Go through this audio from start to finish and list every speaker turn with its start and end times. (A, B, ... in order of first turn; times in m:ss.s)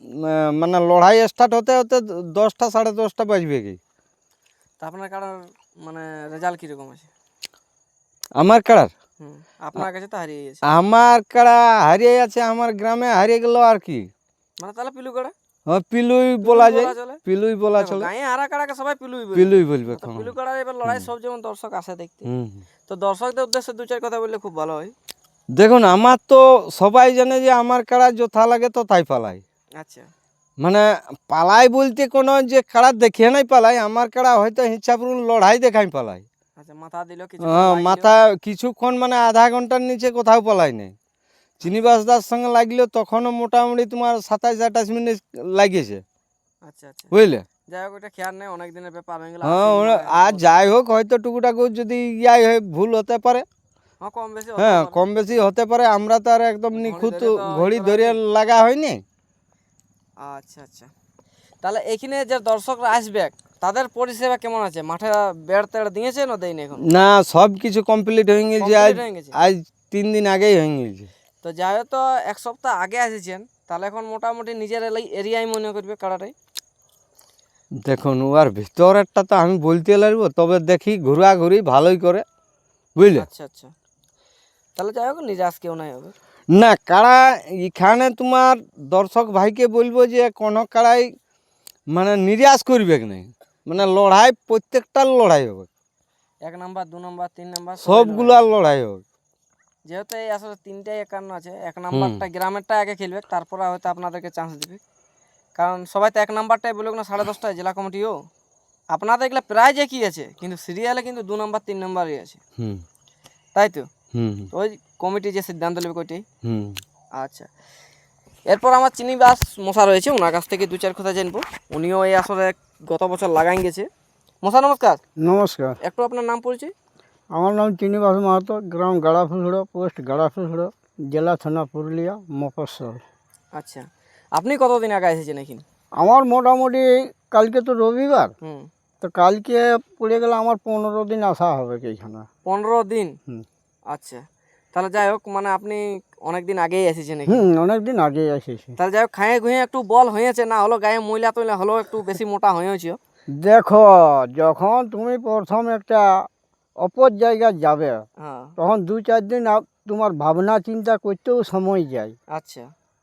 0:00.2-0:03.8 A
0:04.8-0:07.1 B
0:08.4-0:08.9 A
0:09.2-0:10.6 B
0:10.7-0:14.1 A
0:14.6-0:15.3 B
0:15.7-0:18.1 A
0:16.4-0:17.2 B
0:17.7-0:22.3 B
0:19.3-0:20.3 A
0:22.3-0:22.6 A
0:22.9-0:24.9 B
0:25.5-0:29.4 A
0:29.8-0:30.1 B
0:30.6-0:36.2 A
0:36.6-0:38.1 B
0:37.5-0:40.9 A
0:41.6-0:46.0 A
0:46.6-0:47.1 B
0:47.1-0:47.4 A
0:47.7-0:50.5 B
0:49.4-0:53.4 A
0:54.0-0:55.0 B
0:54.6-0:59.0 A
0:56.7-0:58.2 B
1:00.2-1:00.9 B
1:01.6-1:06.8 B
1:06.9-1:11.1 A
1:08.5-1:09.4 B
1:11.4-1:16.3 B
1:17.8-1:22.2 A
1:23.0-1:23.2 A
1:23.1-1:23.7 B
1:24.8-1:26.1 B
1:26.5-1:31.0 A
1:31.9-1:35.7 A
1:36.4-1:38.4 B
1:37.8-1:39.0 A
1:39.9-1:44.8 B
1:41.9-1:42.2 A
1:45.6-1:48.1 B
1:48.9-1:52.4 B
1:53.5-1:53.9 B
1:54.1-1:54.5 A
1:54.5-1:56.2 B
1:56.4-1:56.8 A
1:57.2-1:57.5 B
1:58.5-2:03.9 B
2:04.4-2:05.0 B
2:05.2-2:05.7 C
2:05.8-2:06.7 B
2:07.3-2:13.0 C
2:13.5-2:15.6 B
2:16.0-2:18.3 C
2:18.4-2:18.7 B
2:19.0-2:22.2 C
2:22.4-2:23.2 B
2:23.9-2:24.2 B
2:24.7-2:27.4 B
2:27.3-2:28.7 C
2:28.8-2:33.0 B
2:33.4-2:36.2 C
2:36.8-2:38.0 C
2:38.2-2:38.5 B
2:38.6-2:42.1 C
2:42.3-2:42.6 B